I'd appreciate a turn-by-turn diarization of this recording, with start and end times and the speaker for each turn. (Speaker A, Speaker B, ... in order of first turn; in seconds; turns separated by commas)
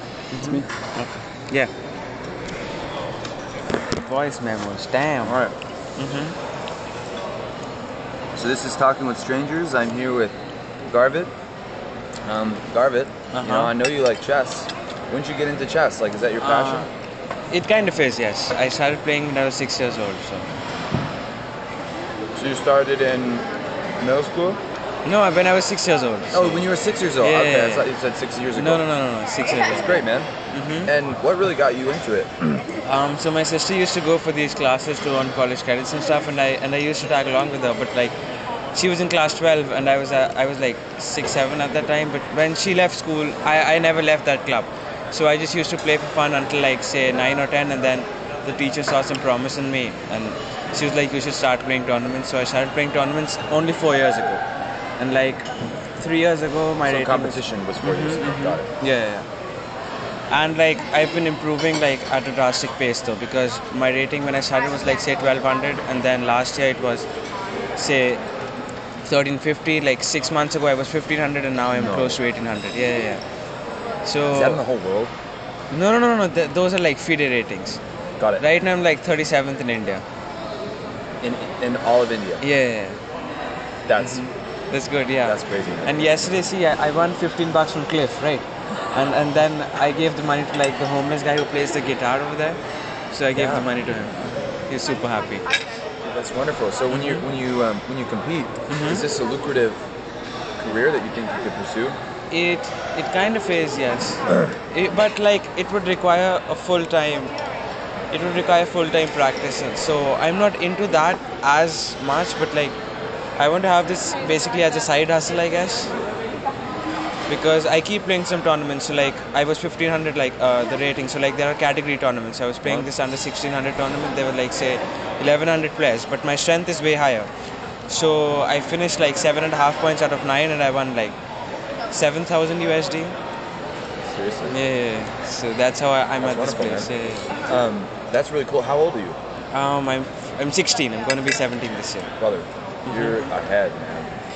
Speaker A: 0.3-1.7, Speaker B: 0.4-0.6, Speaker A: 3.9-5.4, Speaker B: 5.2-5.5, Speaker A: 6.0-6.3, Speaker B: 8.3-11.3, Speaker B: 12.2-16.9, Speaker A: 13.3-13.7, Speaker A: 16.4-16.9, Speaker A: 17.5-20.4, Speaker B: 22.3-23.5, Speaker B: 24.0-24.6, Speaker A: 25.0-26.7, Speaker B: 26.3-28.9, Speaker A: 27.2-27.9, Speaker A: 28.5-30.9, Speaker B: 29.4-30.3, Speaker B: 30.8-32.6, Speaker A: 32.8-38.1, Speaker A: 38.7-54.4, Speaker A: 55.0-59.2, Speaker B: 56.8-58.7, Speaker A: 60.3-67.1, Speaker A: 67.8-68.2, Speaker A: 69.0-73.2, Speaker B: 71.7-72.2, Speaker A: 74.0-74.6, Speaker B: 74.3-75.1, Speaker A: 75.7-77.8, Speaker B: 78.2-78.4, Speaker A: 78.4-80.0, Speaker B: 81.2-82.4, Speaker A: 82.4-83.0, Speaker B: 83.8-84.2, Speaker A: 84.0-92.6, Speaker B: 85.2-86.4, Speaker A: 93.1-94.1, Speaker B: 93.3-93.7, Speaker A: 94.7-95.4, Speaker B: 96.0-99.8, Speaker A: 96.9-97.2, Speaker A: 98.7-99.0, Speaker B: 100.6-102.0, Speaker A: 102.3-107.3, Speaker A: 108.1-112.7, Speaker A: 113.4-115.9, Speaker A: 117.3-127.3, Speaker B: 122.6-122.9, Speaker A: 127.9-131.1, Speaker A: 131.9-133.1, Speaker B: 134.0-134.6, Speaker A: 134.5-137.3, Speaker B: 136.2-136.9, Speaker B: 137.4-139.2, Speaker A: 139.5-142.1, Speaker B: 142.2-144.1, Speaker A: 142.8-143.3